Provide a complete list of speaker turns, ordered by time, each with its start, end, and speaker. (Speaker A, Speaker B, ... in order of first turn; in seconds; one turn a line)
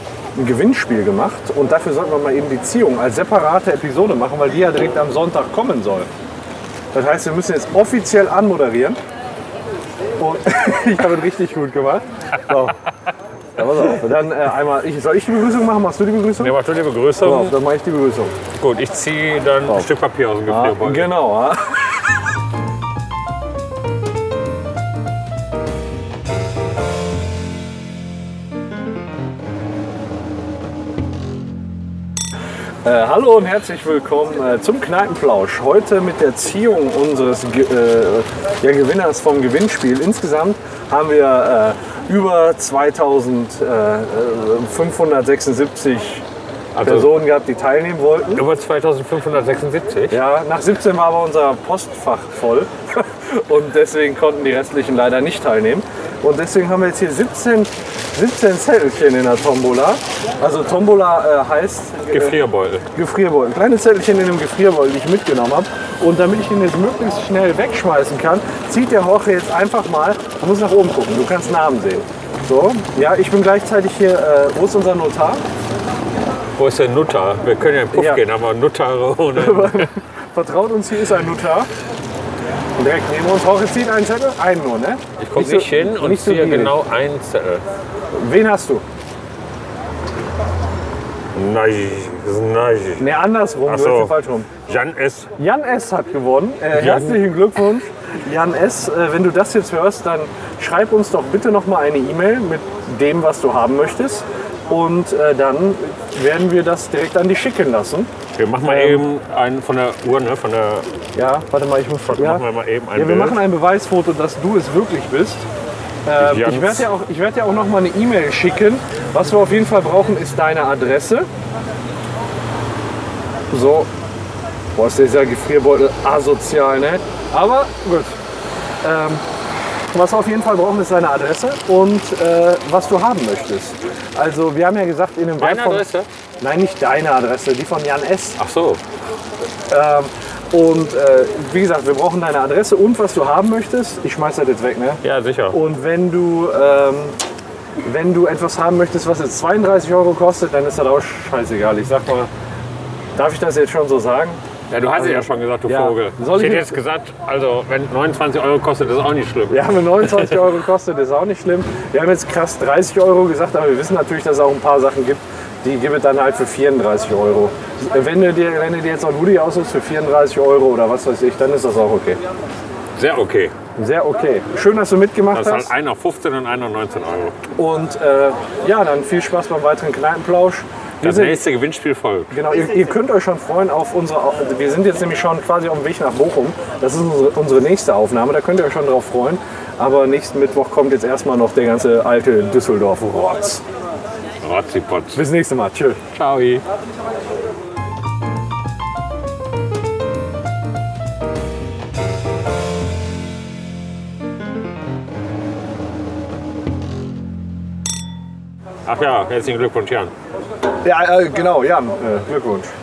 Speaker A: 0.3-6.1
Speaker A: 6.9-9.0
Speaker A: 10.2-12.8
Speaker A: 13.6-16.6
Speaker B: 16.4-17.6
Speaker A: 17.2-18.3
Speaker B: 18.6-21.1
Speaker A: 20.5-21.8
Speaker A: 32.8-46.2
Speaker B: 46.8-47.1
Speaker A: 46.8-48.5
Speaker B: 48.3-50.2
Speaker A: 50.1-62.4
Speaker B: 62.1-62.8
Speaker A: 62.9-75.4
Speaker B: 76.6-79.9
Speaker A: 77.9-78.2
Speaker A: 79.3-81.7
Speaker A: 82.8-86.8
Speaker B: 85.2-87.6
Speaker A: 88.2-88.8
Speaker B: 91.3-93.1
Speaker A: 93.0-94.5
Speaker B: 93.6-94.1
Speaker B: 94.6-95.3
Speaker A: 95.4-108.1
Speaker B: 96.7-97.2
Speaker B: 108.4-110.9
Speaker A: 108.6-109.0
Speaker A: 111.2-115.5
Speaker B: 112.0-113.4
Speaker A: 116.1-121.3
Speaker B: 116.2-116.9
Speaker A: 123.5-123.9
Speaker A: 124.8-128.2
Speaker A: 128.8-129.2
Speaker A: 129.9-135.8
Speaker B: 135.4-136.1
Speaker A: 136.4-138.4
Speaker B: 138.4-138.8
Speaker A: 139.7-145.0
Speaker B: 145.0-145.6
Speaker A: 145.5-147.2
Speaker A: 147.8-152.3
Speaker A: 153.2-154.4
Speaker B: 154.7-160.4
Speaker A: 155.0-156.8
Speaker A: 159.5-172.2
Speaker B: 172.9-173.5
Speaker A: 173.8-175.7
Speaker B: 175.3-177.4
Speaker A: 177.6-181.4
Speaker B: 181.0-182.3
Speaker A: 182.3-193.6
Speaker B: 194.4-195.2
Speaker A: 195.1-196.0
Speaker B: 196.1-196.6
Speaker B: 208.8-210.1
Speaker A: 210.8-212.7